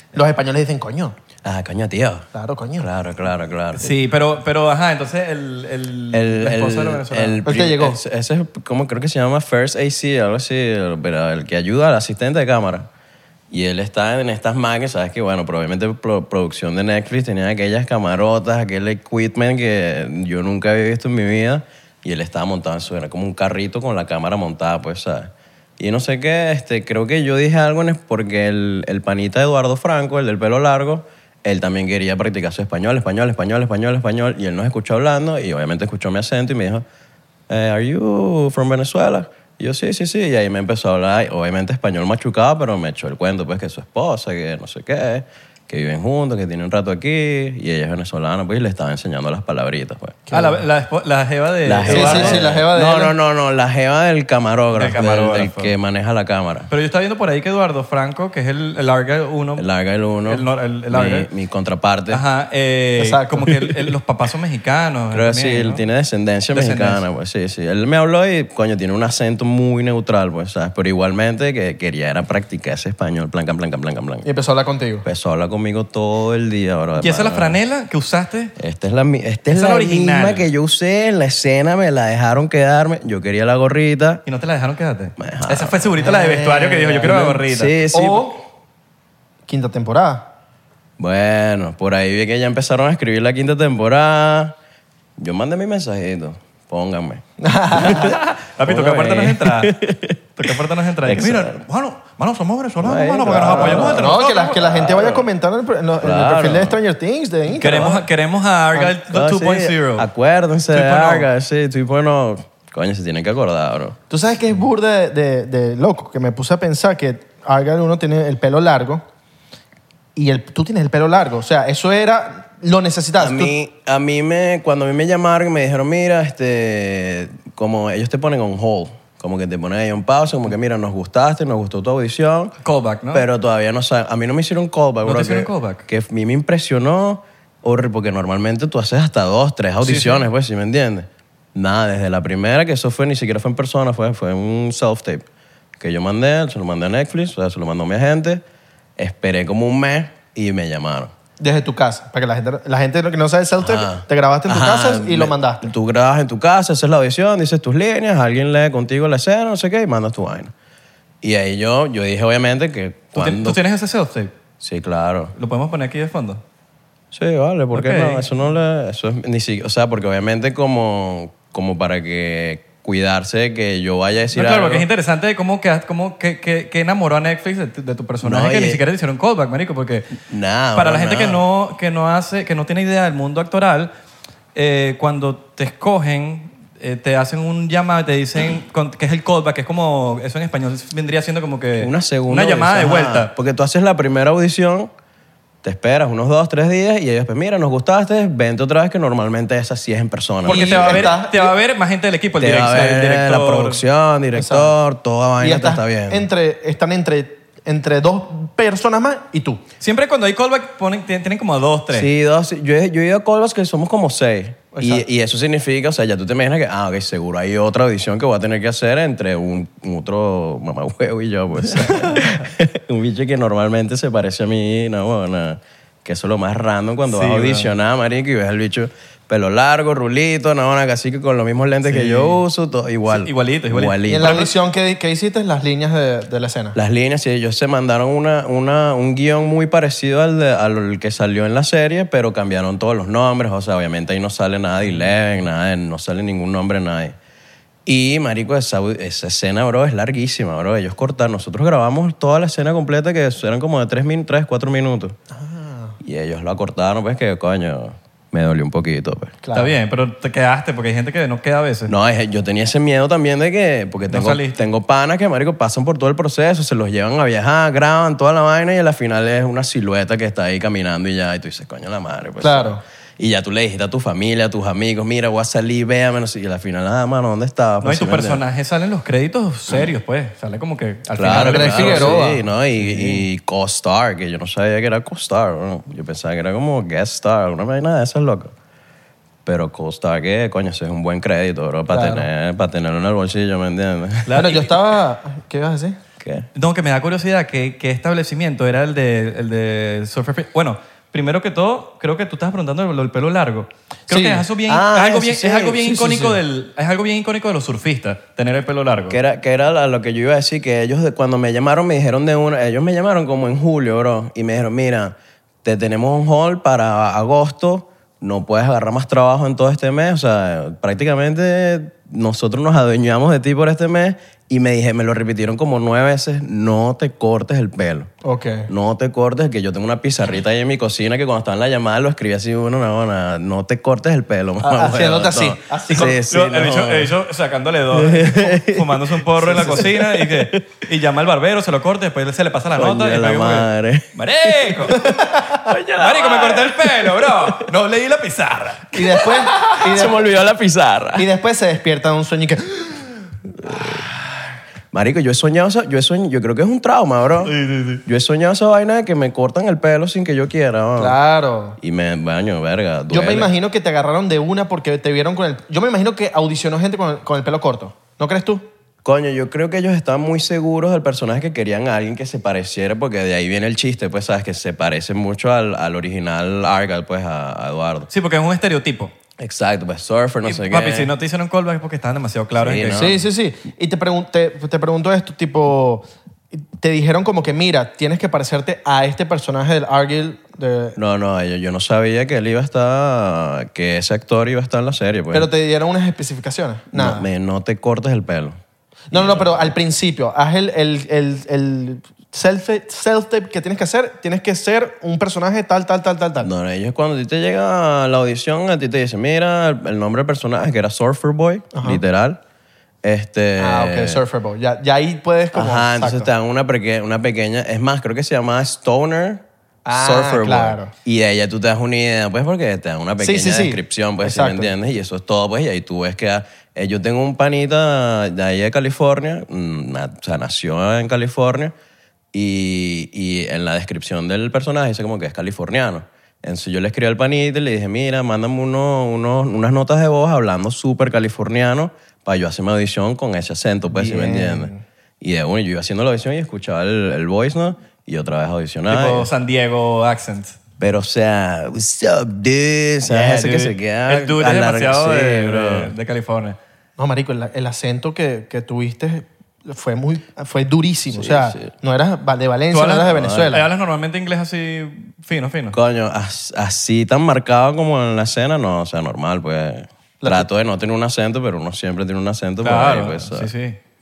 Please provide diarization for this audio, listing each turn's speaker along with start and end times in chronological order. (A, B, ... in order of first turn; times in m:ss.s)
0:00.1-0:01.1 A
0:01.4-0:03.9 B
0:02.3-0:02.9 A
0:03.7-0:07.4 C
0:06.1-0:12.9 B
0:07.4-0:08.0 A
0:13.5-0:36.8 B
0:37.5-0:50.2 B
0:50.3-0:50.6 A
0:50.3-0:52.4 C
0:51.6-0:56.7 B
0:51.8-0:53.1 A
0:54.7-0:55.7 C
0:56.7-0:59.6 C
0:59.6-1:02.2 B
1:00.2-1:01.3 C
1:02.1-1:05.8 C
1:03.0-1:03.9 A
1:05.1-1:14.3 B
1:06.5-1:07.0 C
1:14.2-1:15.0 A
1:15.0-1:17.6 B
1:17.0-1:18.5 C
1:18.6-1:24.2 B
1:19.5-1:20.5 C
1:24.2-1:27.8 C
1:25.2-1:26.1 B
1:26.0-1:27.2 A
1:27.0-1:28.4 B
1:27.9-1:28.4 A
1:29.5-1:30.3 A
1:31.0-1:34.5 B
1:35.2-1:37.2 B
1:37.4-1:38.1 A
1:37.7-1:41.6 B
1:37.9-1:39.8 C
1:40.4-1:44.9 C
1:42.8-1:45.3 B
1:43.2-1:48.0 A
1:46.0-1:46.8 B
1:47.5-1:50.1 C
1:48.8-1:54.0 B
1:50.7-1:51.3 C
1:54.1-1:59.0 A
2:00.2-2:03.5 A
2:03.2-2:12.5 B
2:12.6-2:13.2 C
2:13.1-2:25.2 B
2:15.0-2:15.8 C
2:19.8-2:20.3 C
2:25.8-2:28.4 B
2:29.0-2:31.1 B
2:31.4-2:35.7 A
2:33.6-2:40.5 B
2:41.2-2:43.6 B
2:43.1-2:44.3 C
2:44.6-2:45.3 B
2:45.4-2:46.4 C
2:47.1-2:54.8 B
2:47.7-2:48.2 C
2:54.3-3:00.2 C
2:58.2-2:58.8 B
3:00.3-3:01.4 B
3:00.7-3:03.9 C
3:04.5-3:13.3 C
3:11.8-3:14.9 B
3:15.6-3:21.2 B
3:20.4-3:21.5 A
3:20.4-3:23.8 C
3:22.4-3:26.3 B
3:24.3-3:24.7 A
3:25.4-3:29.6 A
3:29.8-3:32.1 C
3:31.9-3:54.5 B
3:34.7-3:35.0 A
3:41.7-3:42.4 C
3:47.1-3:47.7 C
3:51.8-3:52.4 C
3:53.1-3:54.5 C
3:54.1-3:56.8 A
3:56.7-4:07.2 B
4:07.8-4:15.2 B
4:15.3-4:16.0 A
4:16.0-4:19.4 B
4:19.4-4:19.8 A
4:19.5-4:21.9 C
4:21.9-4:38.4 B
4:24.1-4:24.6 C
4:32.4-4:32.8 A
4:37.8-4:42.2 C
4:41.1-4:48.5 B
4:41.2-4:42.4 A
4:42.8-4:43.2 C
4:49.4-4:54.4 B
4:51.9-4:52.3 A
4:54.3-4:54.8 C
4:54.4-4:56.0 A
4:56.2-4:56.5 B
4:56.5-5:09.2 C
5:04.1-5:04.4 A
5:04.6-5:06.4 B
5:09.1-5:28.1 B
5:28.2-5:28.7 A
5:28.7-5:37.2 B
5:34.6-5:36.1 A
5:35.9-5:45.0 C
5:37.9-5:40.8 B
5:39.4-5:39.9 A
5:42.7-5:47.7 B
5:44.9-5:45.6 A
5:46.0-5:49.7 C
5:48.9-5:50.2 A
5:49.6-5:51.3 B
5:51.2-5:53.1 A
5:53.6-5:57.5 B
5:57.4-5:58.0 C
5:58.0-6:01.2 B
6:01.0-6:01.8 A
6:01.8-6:03.5 B
6:03.1-6:08.7 A
6:09.0-6:18.1 B
6:18.1-6:19.1 C
6:19.4-6:21.1 B
6:20.4-6:23.0 C
6:22.6-6:23.2 B
6:23.0-6:31.0 A
6:31.0-6:35.5 B
6:35.3-6:37.2 A
6:36.9-6:38.6 B
6:39.1-6:46.5 A
6:39.1-6:39.7 B
6:46.4-6:52.4 B
6:53.0-6:54.2 B
6:53.6-6:56.3 A
6:55.5-7:11.7 B
6:59.8-7:00.9 A
7:03.2-7:04.7 A
7:12.3-7:29.3 B
7:23.9-7:24.8 A
7:28.9-7:30.6 C
7:30.8-7:35.9 B
7:33.1-7:36.6 C
7:37.0-7:43.6 A
7:41.1-7:41.7 B
7:42.7-7:45.8 C
7:45.7-7:53.5 B
7:50.2-7:50.5 A
7:52.6-7:53.8 C